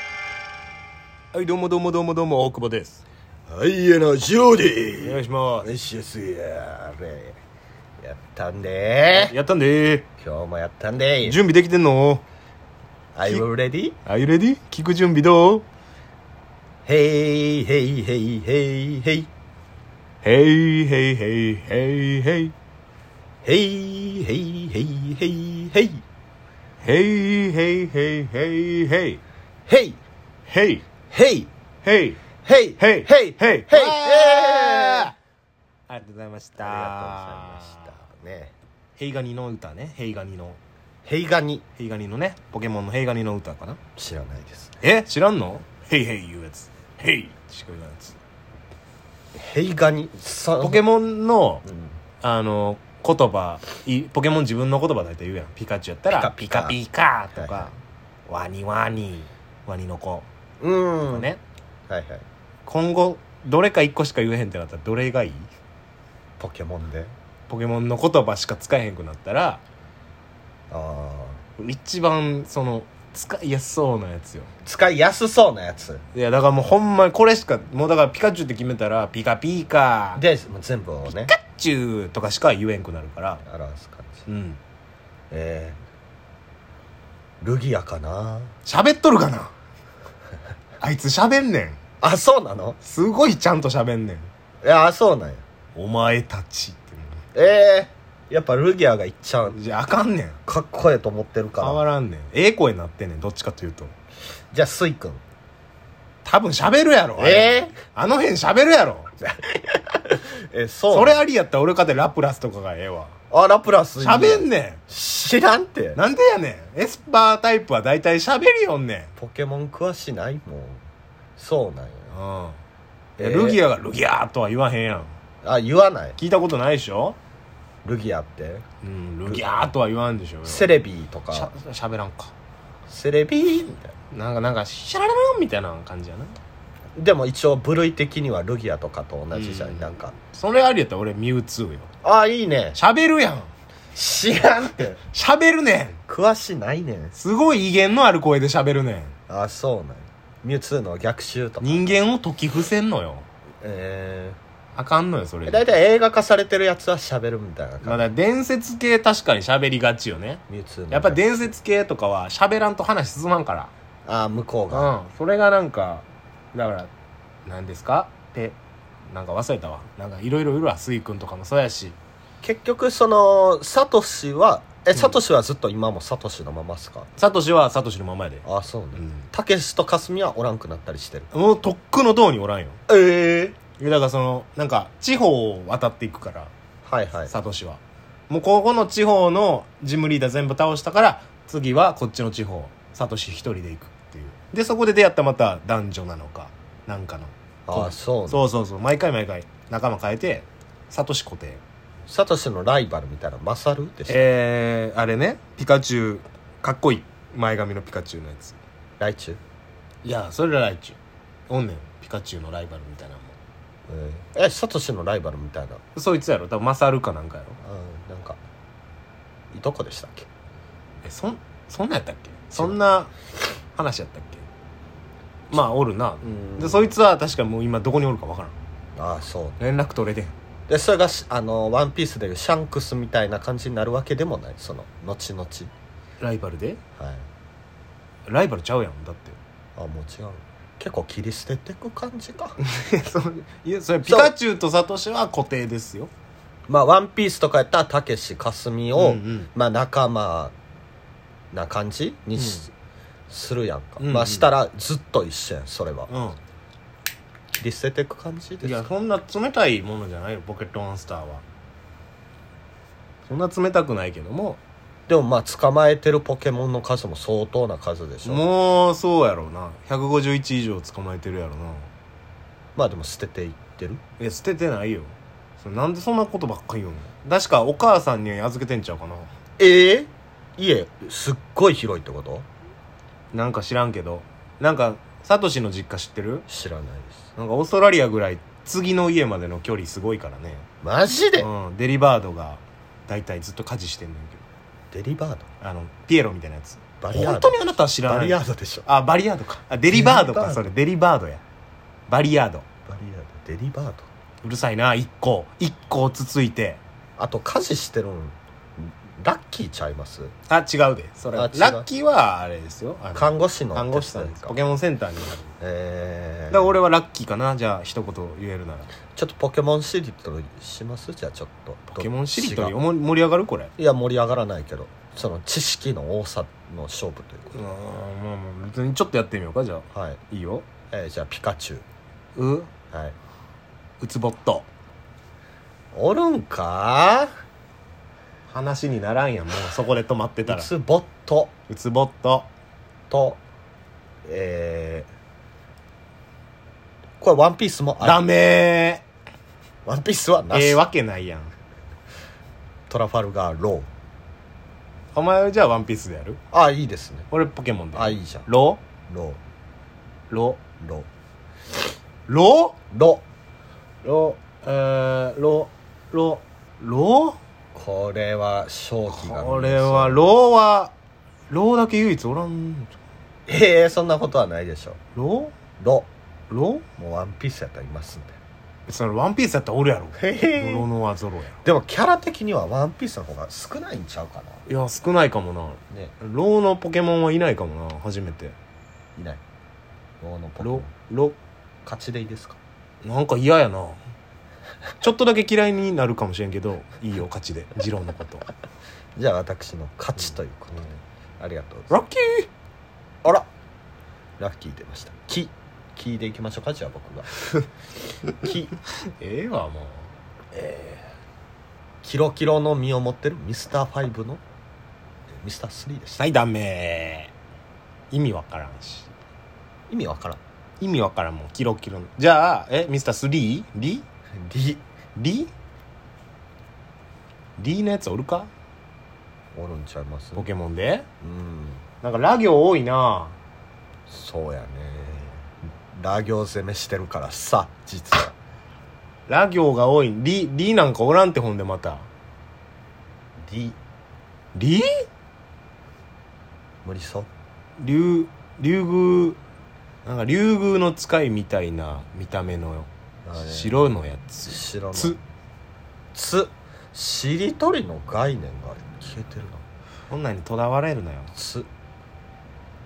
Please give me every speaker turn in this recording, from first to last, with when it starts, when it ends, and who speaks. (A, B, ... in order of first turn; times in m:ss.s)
0:01.3-0:03.0 A
0:03.5-0:07.4 B
0:05.0-0:05.7 A
0:08.0-0:09.4 B
0:09.1-0:10.1 A
0:10.2-0:11.4 B
0:11.2-0:12.2 A
0:13.1-0:14.0 B
0:14.0-0:15.7 A
0:16.8-0:19.3 B
0:20.2-0:22.5 A
0:23.4-0:26.0 B
0:26.8-0:29.2 A
0:29.7-0:30.0 B
0:30.5-0:30.8 A
0:31.1-0:31.5 B
0:31.8-0:32.2 A
0:32.4-0:35.1 B
0:32.8-0:35.2 A
0:35.9-0:37.9 A
0:36.6-0:38.5 B
0:39.0-0:40.6 A
0:41.0-0:41.6 B
0:41.8-0:43.8 A
0:44.0-0:44.8 B
0:44.8-0:48.2 A
0:49.3-0:50.8 B
0:50.6-0:51.6 A
0:51.6-0:52.0 B
0:52.2-0:57.7 A
0:56.1-0:56.8 B
0:57.3-0:57.7 B
0:58.3-1:00.2 A
1:00.6-1:01.3 B
1:01.1-1:01.4 A
1:01.9-1:02.2 B
1:02.6-1:05.5 A
1:06.4-1:07.1 B
1:07.5-1:09.6 A
1:10.7-1:11.4 B
1:11.6-1:14.5 A
1:14.6-1:16.0 B
1:16.1-1:20.2 A
1:20.2-1:21.3 B
1:21.1-1:23.4 A
1:23.4-1:24.3 B
1:24.3-1:24.6 A
1:25.3-1:25.8 B
1:27.4-1:28.5 B
1:28.6-1:29.5 A
1:30.8-1:31.8 A
1:32.0-1:32.8 B
1:32.8-1:34.3 A
1:34.6-1:35.4 B
1:35.8-1:37.2 A
1:37.3-1:39.6 B
1:39.5-1:40.4 A
1:40.5-1:41.8 B
1:41.6-1:43.9 A
1:44.5-1:45.2 B
1:46.2-1:49.1 A
1:47.2-1:47.7 B
1:49.2-1:51.2 B
1:50.9-1:53.1 A
1:53.3-1:56.0 B
1:54.0-1:54.8 A
1:56.0-1:59.1 A
1:59.2-2:00.8 B
2:01.4-2:02.2 B
2:02.1-2:02.6 A
2:03.2-2:03.6 B
2:03.2-2:05.1 A
2:05.4-2:06.2 B
2:06.2-2:07.2 A
2:07.8-2:08.6 B
2:08.8-2:10.7 A
2:09.3-2:09.6 B
2:10.4-2:11.5 B
2:11.3-2:12.3 A
2:12.9-2:13.9 B
2:14.1-2:16.3 A
2:16.9-2:20.1 B
2:19.3-2:21.9 A
2:22.0-2:22.8 B
2:22.8-2:23.5 A
2:23.9-2:25.0 B
2:25.1-2:26.0 A
2:26.1-2:27.1 B
2:27.1-2:29.1 A
2:29.3-2:31.9 B
2:31.6-2:33.2 A
2:33.6-2:34.4 B
2:34.8-2:35.7 A
2:35.5-2:38.0 B
2:37.8-2:43.7 A
2:40.5-2:41.3 B
2:44.1-2:44.9 B
2:44.7-2:46.9 A
2:47.4-2:48.6 A
2:49.1-2:52.0 A
2:52.4-2:57.1 B
2:57.2-2:58.4 A
2:58.4-3:01.3 B
2:59.0-2:59.2 A
3:01.3-3:02.8 A
3:02.9-3:03.6 B
3:03.8-3:06.5 A
3:06.8-3:07.3 B
3:07.3-3:21.6 A
3:17.7-3:18.4 B
3:22.1-3:24.3 B
3:24.1-3:28.6 A
3:29.0-3:29.4 B
3:30.0-3:31.0 A
3:31.5-3:33.4 A
3:33.9-3:35.8 B
3:35.9-3:37.6 A
3:37.6-3:38.4 B
3:39.5-3:40.3 B
3:41.0-3:44.5 A
3:45.5-3:48.5 A
3:46.2-3:46.9 B
3:49.0-3:49.6 B
3:49.6-3:50.3 A
3:50.7-3:55.7 B
3:56.2-3:56.8 A
3:57.0-3:57.2 B
3:58.3-3:59.4 A
3:59.8-4:02.6 B
4:02.6-4:06.1 A
4:04.0-4:04.3 B
4:06.7-4:10.5 B
4:09.0-4:09.5 A
4:11.5-4:12.7 B
4:13.3-4:16.1 B
4:14.0-4:14.5 A
4:16.1-4:16.4 A
4:17.5-4:18.9 B
4:18.6-4:21.4 A
4:23.2-4:24.6 A
4:25.1-4:28.5 B
4:28.2-4:31.9 A
4:32.8-4:34.0 B
4:34.2-4:39.3 A
4:39.6-4:42.5 B
4:43.3-4:46.4 A
4:46.5-4:47.3 B
4:47.4-4:50.6 A
4:50.8-4:51.5 B
4:51.4-4:54.4 A
4:54.9-4:55.4 B
4:55.6-5:01.4 A
4:57.0-4:58.9 B
4:59.9-5:00.7 B
5:02.1-5:02.6 A
5:02.9-5:04.1 B
5:04.4-5:06.8 A
5:07.2-5:10.3 B
5:10.5-5:15.5 A
5:11.3-5:11.9 B
5:13.1-5:14.6 B
5:15.6-5:16.8 B
5:16.5-5:18.9 A
5:19.1-5:22.8 B
5:21.9-5:23.7 A
5:23.8-5:27.6 B
5:27.5-5:30.7 A
5:29.9-5:30.2 B
5:30.9-5:31.8 B
5:32.4-5:32.7 A
5:32.9-5:33.2 B
5:34.0-5:34.7 A
5:35.9-5:37.3 B
5:38.5-5:40.7 A
5:40.5-5:41.5 B
5:41.7-5:42.5 A
5:43.1-5:43.4 B
5:44.2-5:45.1 B
5:47.2-5:48.2 B
5:48.0-5:49.0 A
5:49.9-5:50.8 B
5:50.5-5:51.5 A
5:52.9-5:53.9 B
5:55.1-5:56.4 A
5:56.5-5:57.3 B
5:57.3-5:58.8 A
5:57.9-5:58.5 B
5:59.1-5:59.4 B
6:00.3-6:00.6 A
6:00.8-6:01.1 B
6:02.3-6:02.8 A
6:02.9-6:03.2 B
6:04.0-6:07.4 A
6:07.7-6:10.2 B
6:09.1-6:10.9 A
6:11.5-6:12.9 A
6:13.5-6:15.0 B
6:15.1-6:15.5 A
6:15.8-6:16.1 B
6:16.5-6:16.8 A
6:17.0-6:18.4 B
6:18.9-6:21.6 A
6:20.2-6:20.9 B
6:21.6-6:24.6 B
6:24.7-6:28.6 A
6:29.2-6:29.4 B
6:30.2-6:30.9 B
6:30.6-6:31.4 A
6:31.8-6:32.6 B
6:33.0-6:34.0 A
6:35.0-6:38.5 A
6:39.2-6:41.9 B
6:41.9-6:42.5 A
6:44.4-6:47.3 B
6:48.3-6:48.7 B
6:49.0-6:50.1 A
6:50.6-6:51.0 B
6:52.0-6:54.4 B
6:55.3-6:56.2 B
6:56.2-6:57.3 A
6:58.1-6:59.1 A
6:59.9-7:00.4 B
7:00.8-7:04.1 A
7:04.4-7:04.8 B
7:05.2-7:05.5 A
7:07.6-7:08.5 A
7:09.5-7:10.5 B
7:10.4-7:11.0 A
7:11.2-7:11.8 B
7:12.0-7:13.4 A
7:14.1-7:18.3 B
7:19.3-7:22.1 A
7:23.4-7:23.8 B
7:24.6-7:25.0 A
7:26.8-7:27.3 B
7:27.8-7:29.4 A
7:30.0-7:35.2 A
7:33.2-7:33.9 B
7:34.4-7:35.2 B
7:36.1-7:39.6 B
7:40.1-7:41.3 A
7:41.3-7:41.7 B